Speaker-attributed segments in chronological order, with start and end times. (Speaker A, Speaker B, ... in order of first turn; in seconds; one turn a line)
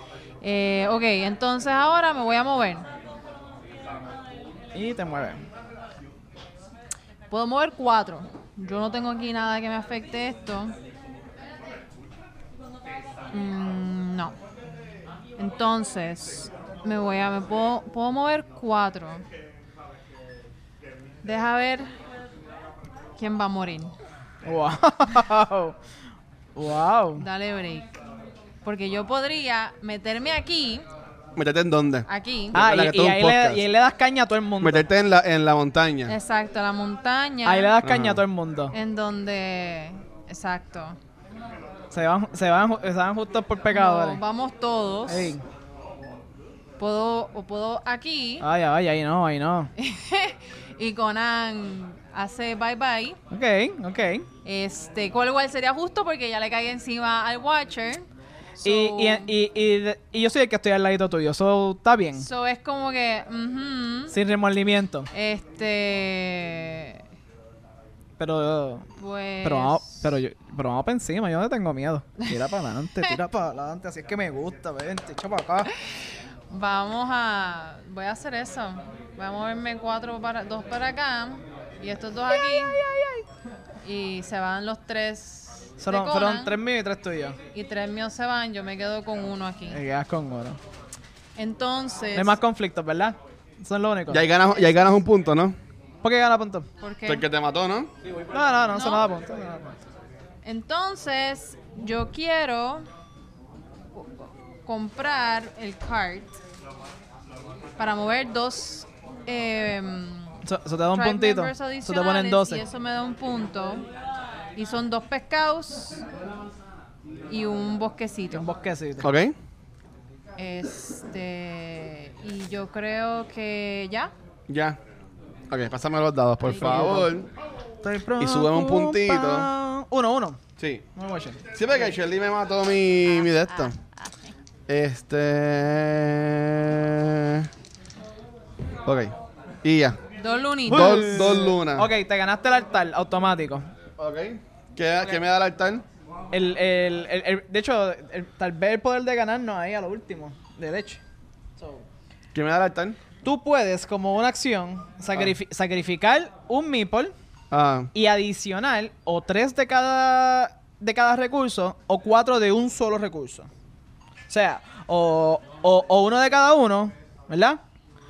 Speaker A: 0.4-2.9
Speaker B: 4.7-5.4
Speaker A: 7.3-10.7
Speaker A: 13.3-14.3
Speaker A: 15.4-19.2
Speaker A: 21.2-21.9
Speaker A: 23.2-23.9
Speaker B: 24.4-25.7
Speaker B: 26.6-27.2
Speaker A: 27.2-27.9
Speaker A: 28.6-30.8
Speaker C: 31.4-33.6
Speaker A: 32.1-32.6
Speaker B: 32.5-34.9
Speaker C: 34.6-36.1
Speaker A: 36.1-37.8
Speaker B: 37.4-38.7
Speaker C: 37.8-38.2
Speaker A: 38.7-41.0
Speaker B: 41.9-44.2
Speaker A: 43.7-45.4
Speaker B: 45.1-45.4
Speaker A: 46.8-48.5
Speaker B: 48.4-49.7
Speaker A: 49.8-53.2
Speaker B: 53.3-54.3
Speaker A: 54.4-58.0
Speaker A: 58.6-59.3
Speaker B: 58.6-62.3
Speaker A: 62.2-64.1
Speaker B: 64.1-65.1
Speaker A: 65.1-67.0
Speaker B: 68.2-68.9
Speaker A: 69.0-70.0
Speaker B: 69.4-75.7
Speaker A: 76.5-82.8
Speaker B: 82.3-83.2
Speaker A: 83.8-86.6
Speaker B: 85.8-87.4
Speaker A: 87.5-89.8
Speaker B: 89.7-90.6
Speaker A: 91.3-92.4
Speaker B: 92.1-94.3
Speaker C: 94.1-95.6
Speaker B: 96.0-96.7
Speaker A: 96.8-97.2
Speaker C: 97.0-97.9
Speaker B: 98.0-99.8
Speaker A: 98.7-99.1
Speaker A: 100.4-102.8
Speaker A: 103.9-106.3
Speaker A: 107.8-110.4
Speaker B: 110.4-112.6
Speaker A: 110.9-113.9
Speaker A: 114.5-116.0
Speaker A: 117.3-118.5
Speaker B: 118.3-119.1
Speaker C: 119.0-119.3
Speaker A: 120.4-124.1
Speaker C: 124.5-124.8
Speaker C: 125.5-127.3
Speaker A: 126.4-126.9
Speaker B: 126.6-127.1
Speaker B: 127.8-130.4
Speaker C: 128.2-129.5
Speaker C: 130.6-130.8
Speaker B: 130.9-131.4
Speaker C: 131.5-133.8
Speaker A: 133.3-134.3
Speaker C: 134.7-137.5
Speaker C: 138.8-140.0
Speaker A: 140.2-141.3
Speaker C: 140.7-141.9
Speaker B: 140.7-143.7
Speaker C: 144.0-145.8
Speaker B: 146.3-151.0
Speaker B: 151.6-151.8
Speaker C: 152.3-153.0
Speaker B: 153.2-157.1
Speaker C: 157.5-157.9
Speaker B: 157.9-163.5
Speaker B: 164.3-167.6